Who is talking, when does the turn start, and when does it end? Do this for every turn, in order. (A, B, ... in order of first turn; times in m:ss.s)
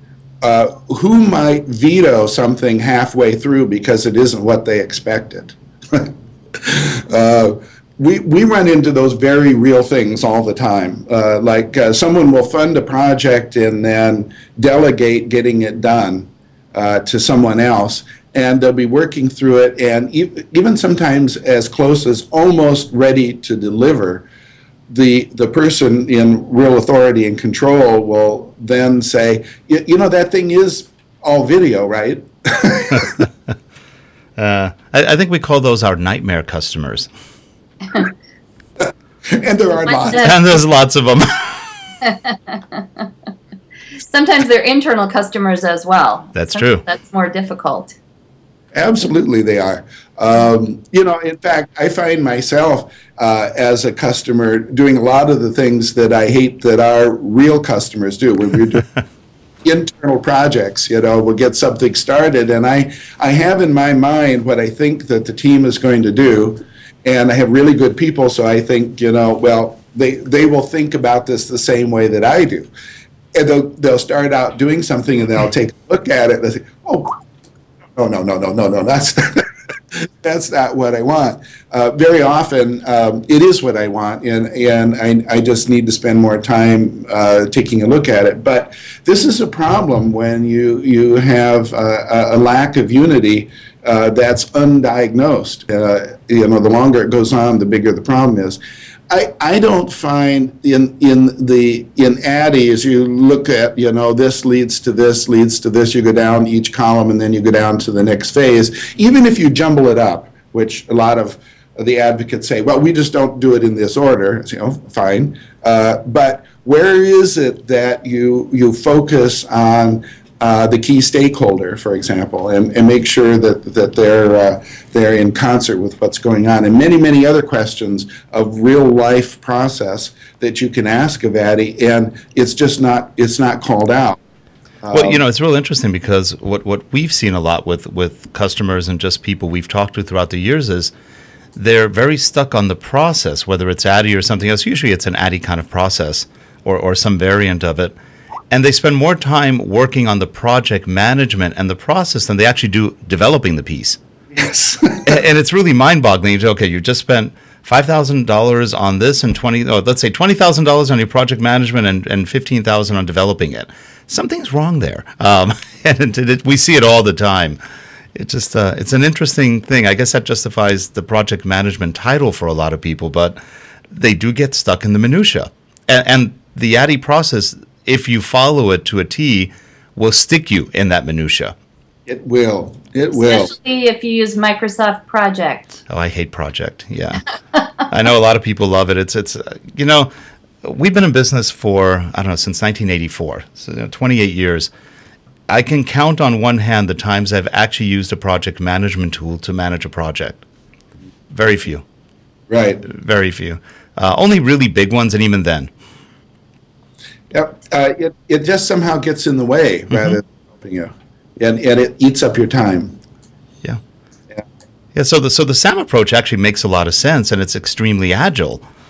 0:00.4-0:24.3 A
0:24.9-0:33.3 A
0:34.4-0:37.1 B
0:38.8-0:40.3 A
0:39.8-0:40.4 C
0:40.2-0:41.7 B
0:42.0-0:43.0 C
0:44.0-0:48.0 C
0:46.3-0:46.8 B
0:48.7-0:58.9 A
0:59.6-1:12.7 A
1:13.3-1:17.2 A
1:18.0-2:14.2 A
2:14.8-2:15.2 A
2:14.9-2:20.9 B
2:21.6-2:27.9 B
2:28.5-2:34.0 B
2:34.3-2:35.2 A
2:35.0-2:47.6 B
2:48.1-2:53.4 B
2:53.9-3:01.5 B
3:02.1-3:03.5 A
3:03.1-3:05.7 C
3:05.9-3:07.3 B
3:07.8-3:10.1 B
3:10.6-3:14.7 B
3:15.5-3:20.4 B
3:21.3-3:21.8 B
3:22.5-3:22.8 A
3:22.8-3:25.7 B
3:27.3-3:33.0 A
3:29.9-3:30.2 B
3:34.9-3:38.6 B